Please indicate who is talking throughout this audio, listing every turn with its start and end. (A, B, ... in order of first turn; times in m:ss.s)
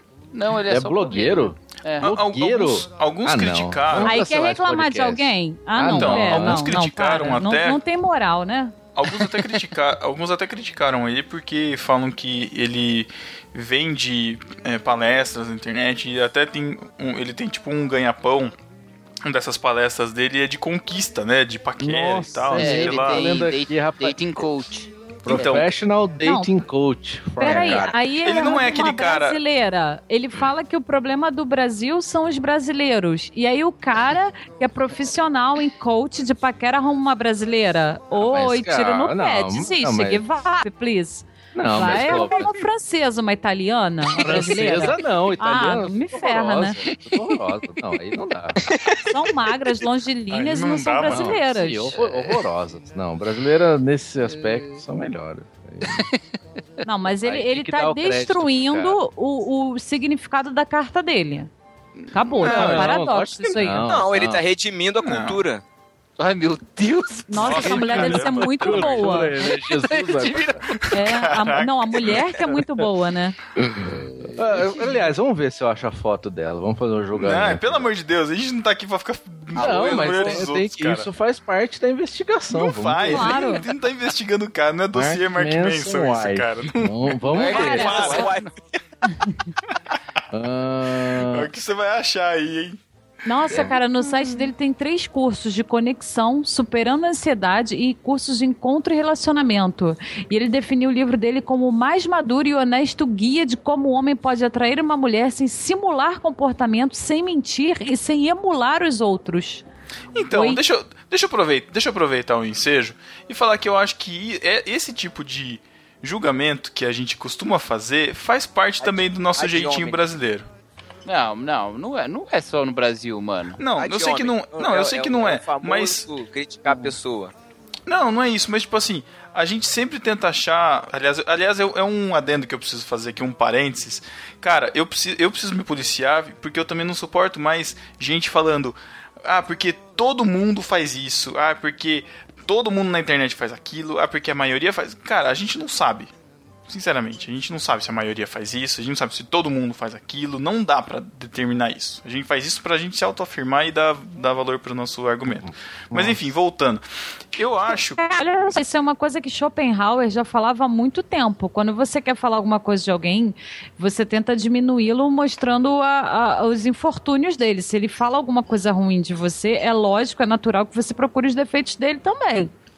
0:00.3-0:02.1 A
0:00.6-0:06.7 B
0:02.0-0:04.2 C
0:04.0-0:08.8 D
0:05.8-0:07.8 C
0:09.0-0:18.6 C
0:19.2-0:23.4 C
0:21.8-0:24.6 B
0:22.6-0:24.9 A
0:25.2-0:27.9 B
0:25.3-0:25.7 C
0:27.4-0:46.8 D
0:27.4-0:28.0 E
0:28.2-0:29.4 C
0:38.2-0:40.2 B
0:41.5-0:42.5 B
0:44.2-0:48.6 B
0:46.9-0:47.4 A
0:49.1-0:52.0 D
0:50.3-0:51.4 C
0:51.0-0:56.1 B
0:52.0-0:52.3 A
0:54.3-0:54.8 A
0:55.8-0:56.2 A
0:56.8-1:01.5 D
0:57.2-0:59.0 B
1:02.1-1:03.9 D
1:02.4-1:04.4 B
1:02.4-1:02.8 E
1:03.8-1:05.6 E
1:05.0-1:05.4 C
1:06.2-1:07.8 A
1:07.3-1:09.4 D
1:07.4-1:09.2 C
1:07.5-1:10.6 B
1:09.4-1:10.7 A
1:10.7-1:12.2 C
1:10.9-1:13.4 D
1:13.6-1:17.9 B
1:13.8-1:14.8 A
1:17.1-1:21.1 C
1:19.6-1:23.4 B
1:19.6-1:20.3 E
1:22.5-1:28.3 C
1:23.1-1:23.7 D
1:24.9-1:28.0 B
1:27.3-1:28.5 A
1:27.4-1:28.3 D
1:27.6-1:28.5 E
1:30.3-1:31.5 B
1:31.1-1:32.8 C
1:33.2-1:49.6 D
1:33.5-1:33.8 B
1:50.1-2:00.5 C
1:50.3-1:50.6 D
1:58.8-2:00.0 E
2:01.1-2:03.6 A
2:03.6-2:06.1 C
2:03.8-2:07.3 E
2:07.9-2:26.1 C
2:26.7-2:36.8 C
2:35.5-2:36.2 B
2:37.3-2:38.0 C
2:37.7-2:52.5 D